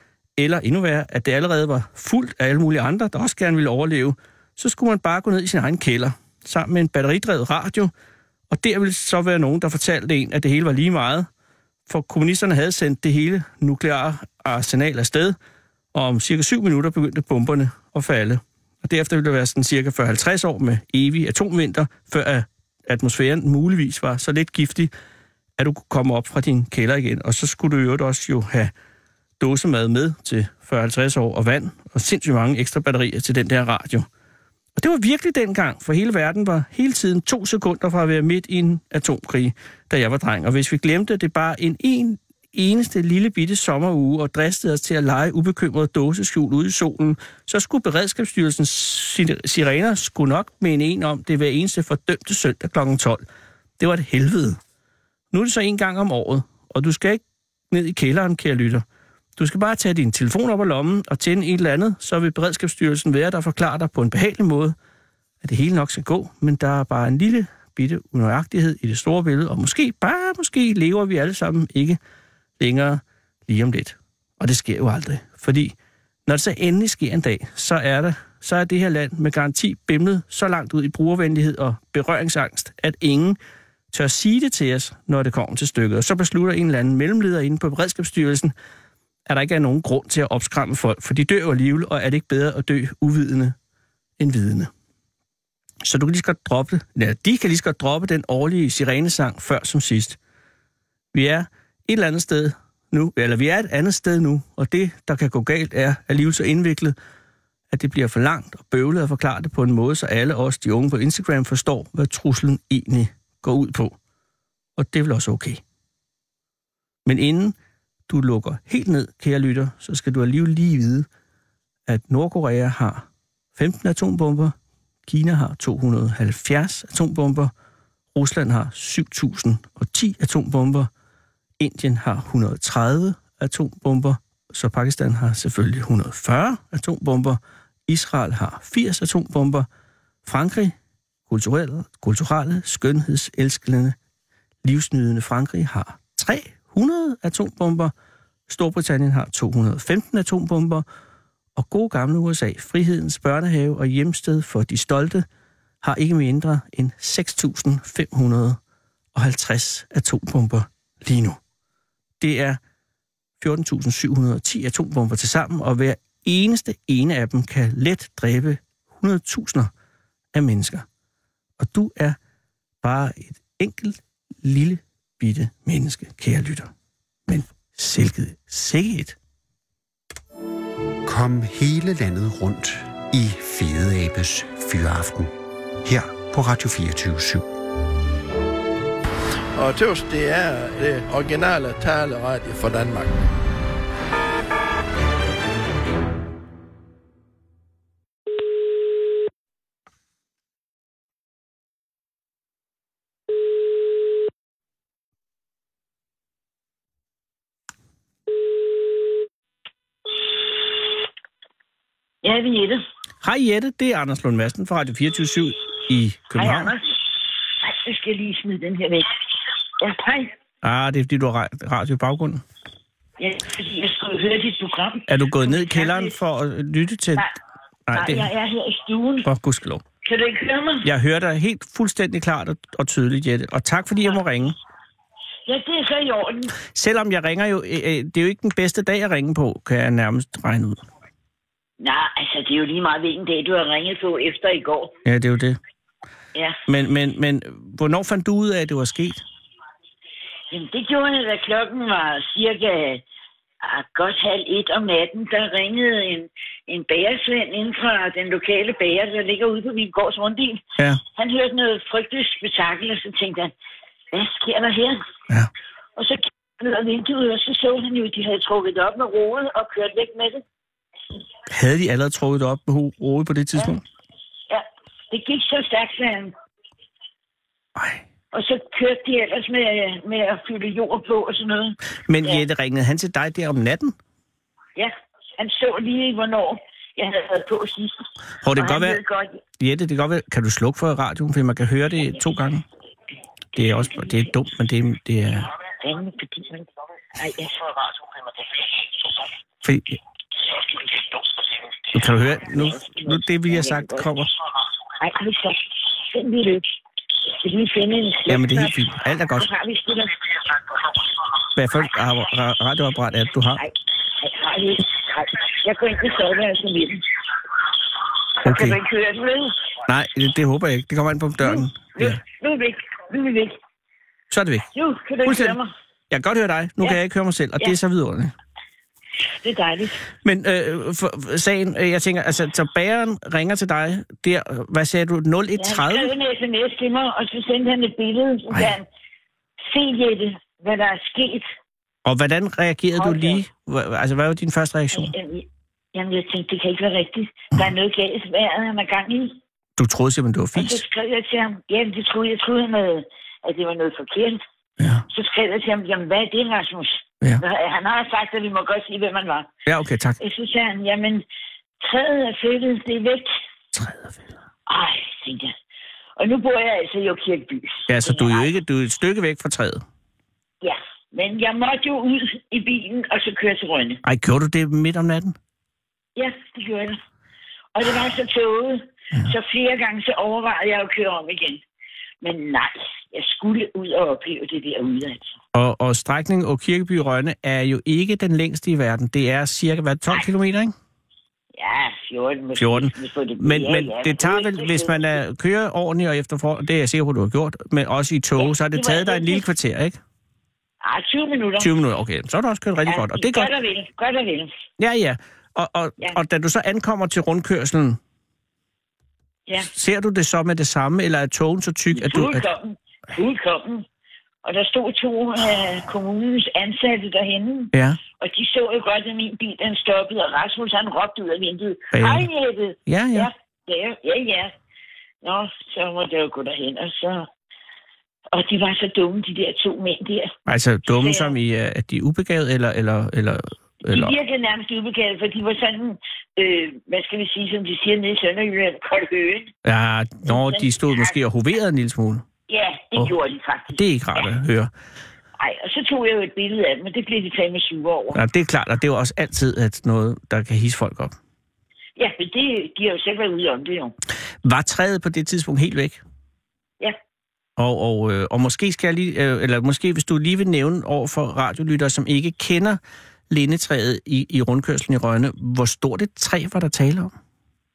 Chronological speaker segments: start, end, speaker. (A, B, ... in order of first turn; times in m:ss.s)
0:00.4-0:07.9 A
0:08.5-0:11.3 A
0:11.9-0:15.4 A
0:15.9-0:24.9 A
0:25.6-0:28.7 A
0:29.4-0:34.1 A
0:34.8-0:53.2 A
0:53.8-0:54.6 A
0:55.3-0:58.8 A
0:59.4-1:04.8 A
1:05.4-1:12.0 A
1:12.6-1:15.8 A
1:16.3-1:23.4 A
1:23.9-1:28.5 A
1:29.3-1:33.6 A
1:34.2-1:34.7 A
1:35.8-1:40.2 A
1:41.1-1:47.0 A
1:47.7-1:54.0 A
1:54.8-1:55.6 A
1:57.0-1:57.6 A
1:58.1-2:01.1 A
2:01.9-2:04.6 A
2:05.1-2:07.5 A
2:08.1-2:10.9 A
2:11.6-2:19.7 A
2:20.2-2:20.7 A
2:21.3-2:24.0 A
2:24.6-2:27.9 A
2:28.5-2:30.8 A
2:31.6-2:35.3 A
2:35.8-2:38.6 A
2:39.2-2:41.4 A
2:42.2-2:42.6 A
2:43.4-2:49.7 A
2:50.3-2:50.8 A
2:51.6-2:52.2 A
2:52.8-2:56.7 A
2:57.3-2:59.2 A
3:01.0-3:05.3 B
3:05.8-3:07.4 B
3:09.6-3:13.2 C
3:32.2-3:32.8 D
3:33.2-3:36.8 A
3:36.4-3:37.0 D
3:37.6-3:39.1 D
3:39.8-3:40.3 D
3:40.6-3:42.4 A
3:43.2-3:46.2 D
3:45.1-3:47.3 A
3:47.9-3:48.3 A
3:47.9-3:49.3 D
3:49.2-3:49.8 A
3:50.0-3:50.9 D
3:50.8-3:54.6 A
3:55.5-3:56.5 D
3:56.6-4:00.8 A
4:01.8-4:05.0 D
4:05.0-4:05.6 A
4:06.4-4:06.6 D
4:06.7-4:09.2 A
4:10.5-4:13.0 D
4:13.6-4:23.5 D
4:24.1-4:25.0 D
4:26.0-4:30.4 D
4:31.5-4:33.8 A
4:34.5-4:36.3 D
4:37.8-4:38.0 A
4:38.3-4:42.4 D
4:42.1-4:43.9 A
4:44.8-4:48.0 D
4:48.4-4:49.0 A
4:48.6-4:49.4 D
4:49.6-4:52.6 A
4:53.6-4:55.5 A
4:55.8-4:59.1 D
4:59.6-5:00.0 A
5:00.7-5:01.2 D
5:01.9-5:04.3 A
5:02.5-5:04.1 D
5:05.0-5:06.7 D
5:07.4-5:11.0 D
5:08.3-5:09.5 A
5:11.6-5:13.6 A
5:13.6-5:17.0 D
5:18.4-5:19.7 D
5:18.4-5:18.8 A
5:19.9-5:22.2 A
5:21.4-5:23.6 D
5:24.3-5:24.7 A
5:24.7-5:25.7 D
5:25.2-5:25.6 A
5:26.1-5:28.3 A
5:29.4-5:30.0 D
5:30.2-5:36.1 A
5:35.6-5:38.9 D
5:39.7-5:41.5 D
5:42.0-5:45.2 A
5:43.0-5:43.4 D
5:44.9-5:49.4 D
5:49.8-5:50.8 A
5:50.6-5:54.4 D
5:54.8-5:55.0 A
5:55.1-5:59.5 D
5:59.7-6:00.2 A
6:00.2-6:01.2 D
6:01.8-6:03.4 D
6:03.7-6:04.4 A
6:04.7-6:05.5 D
6:06.2-6:08.5 D
6:07.9-6:09.8 A
6:10.6-6:14.0 D
6:14.0-6:15.4 A
6:16.2-6:17.0 D
6:17.8-6:21.6 D
6:22.2-6:25.4 D
6:25.5-6:30.7 A
6:31.6-6:35.2 D
6:32.6-6:40.0 A
6:38.4-6:39.5 D
6:40.8-6:41.7 D
6:41.6-6:43.5 A
6:42.8-6:44.5 D
6:44.8-6:48.0 A
6:49.6-6:52.5 A
6:52.0-6:53.9 D
6:54.4-7:04.5 D
6:57.7-6:58.0 A
7:01.9-7:02.3 A
7:02.9-7:03.3 A
7:05.2-7:07.3 D
7:08.3-7:10.3 D
7:10.5-7:14.2 A
7:10.9-7:11.3 D
7:13.9-7:19.5 D
7:19.6-7:22.2 A
7:20.3-7:21.1 D
7:22.5-7:23.8 D
7:23.7-7:24.7 A
7:25.4-7:28.2 D
7:28.1-7:31.2 A
7:32.0-7:34.0 D
7:34.4-7:36.0 A
7:37.6-7:47.1 A